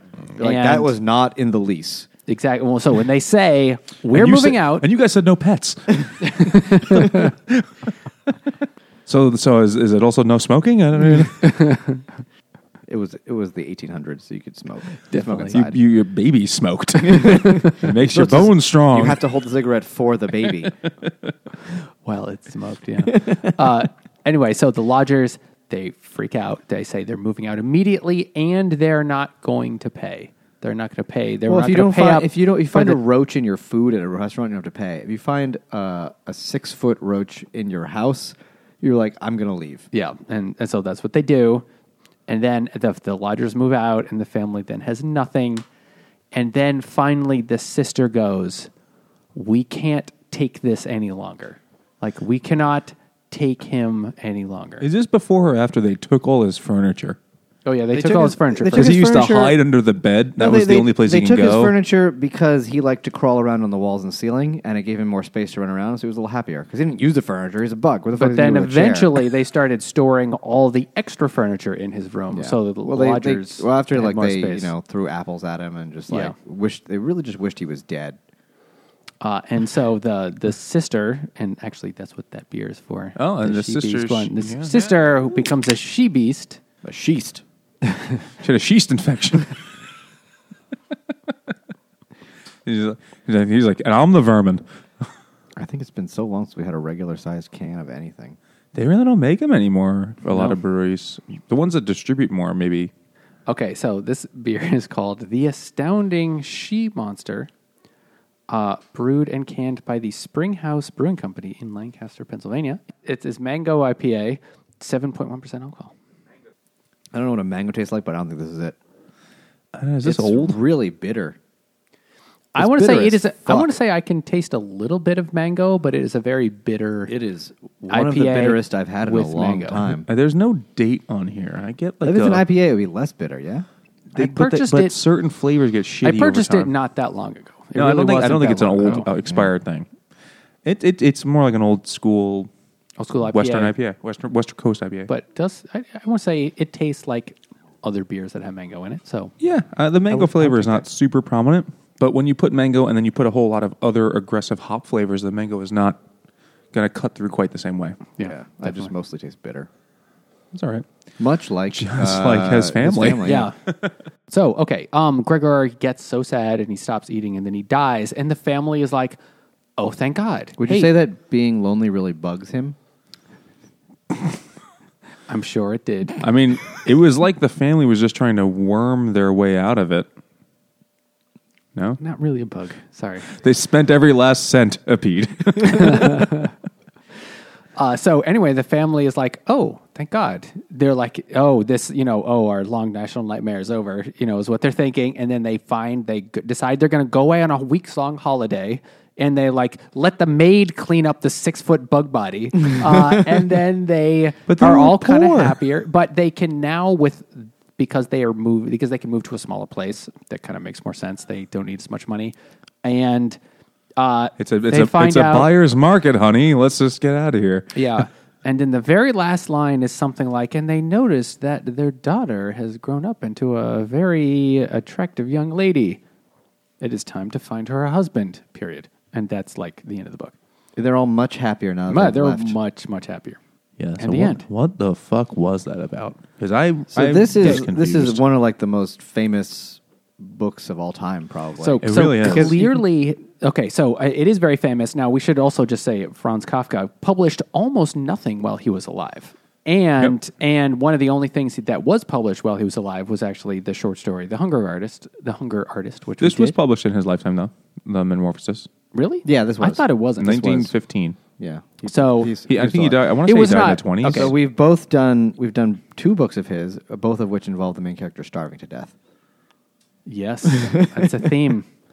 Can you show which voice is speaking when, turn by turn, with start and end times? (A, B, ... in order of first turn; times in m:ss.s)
0:00.4-0:02.1 A
0:00.4-0:00.9 B
0:02.3-0:04.8 B
0:04.1-0:07.9 C
0:06.2-0:07.3 B
0:09.1-0:11.6 C
0:11.4-0:12.0 B
0:12.9-0:15.8 A
0:15.1-0:15.5 B
0:15.5-0:19.2 C
0:17.1-0:17.5 A
0:18.0-0:20.7 A
0:22.0-0:33.0 B
0:23.1-0:23.5 A
0:31.5-0:39.8 A
0:39.9-0:41.6 B
0:42.3-0:45.6 B
0:46.3-0:48.7 B
0:49.3-0:54.9 B
0:54.8-0:57.2 C
0:57.6-0:59.0 B
0:57.9-0:59.6 A
0:58.7-1:01.7 C
1:00.4-1:09.2 A
1:08.2-1:14.7 B
1:12.3-1:18.2 A
1:16.1-1:16.3 B
1:19.2-1:26.6 B
1:23.2-1:25.0 C
1:26.8-1:27.4 A
1:28.4-1:29.6 C
1:32.6-1:35.1 C
1:35.6-1:38.4 A
1:38.7-1:42.9 C
1:43.5-1:47.5 B
1:48.5-1:55.9 B
1:57.1-1:58.8 A
1:59.7-2:00.6 C
2:00.0-2:01.4 A
2:02.5-2:07.1 B
2:02.6-2:03.7 A
2:07.1-2:10.1 A
2:07.9-2:09.8 B
2:10.0-2:12.4 C
2:12.0-2:13.6 A
2:14.1-2:15.0 B
2:14.1-2:16.7 C
2:16.0-2:19.1 B
2:17.8-2:19.9 C
2:19.2-2:19.5 A
2:20.6-2:22.5 C
2:23.0-2:23.7 B
2:23.3-2:25.1 C
2:25.1-2:29.3 B
2:29.4-2:36.0 C
2:30.1-2:30.8 B
2:36.7-2:38.0 C
2:38.2-2:38.9 B
2:38.2-2:39.7 A
2:40.5-2:40.8 C
2:41.2-2:43.5 A
2:41.7-2:43.9 C
2:43.2-2:43.6 B
2:44.3-2:49.2 B
2:49.8-2:50.9 B
2:50.6-2:52.8 A
2:55.3-2:56.2 B
2:56.2-3:00.1 C
3:01.7-3:02.0 C
3:02.0-3:03.3 B
3:03.3-3:06.5 C
3:05.6-3:06.5 B
3:07.8-3:33.4 B
3:24.5-3:25.6 C
3:34.0-3:35.5 B
3:34.4-3:38.0 C
3:37.7-3:46.0 B
3:46.8-3:50.3 B
3:50.8-3:52.6 A
3:51.9-3:53.4 B
3:53.8-3:58.2 C
3:54.0-3:54.4 B
3:56.9-4:02.7 A
4:01.6-4:16.5 B
4:01.8-4:02.6 C
4:16.2-4:18.7 C
4:18.9-4:20.7 B
4:19.2-4:19.8 A
4:20.2-4:21.2 C
4:21.4-4:23.1 A
4:21.9-4:22.4 B
4:22.4-4:24.3 C
4:23.2-4:24.3 B
4:24.0-4:28.9 A
4:30.0-4:31.7 B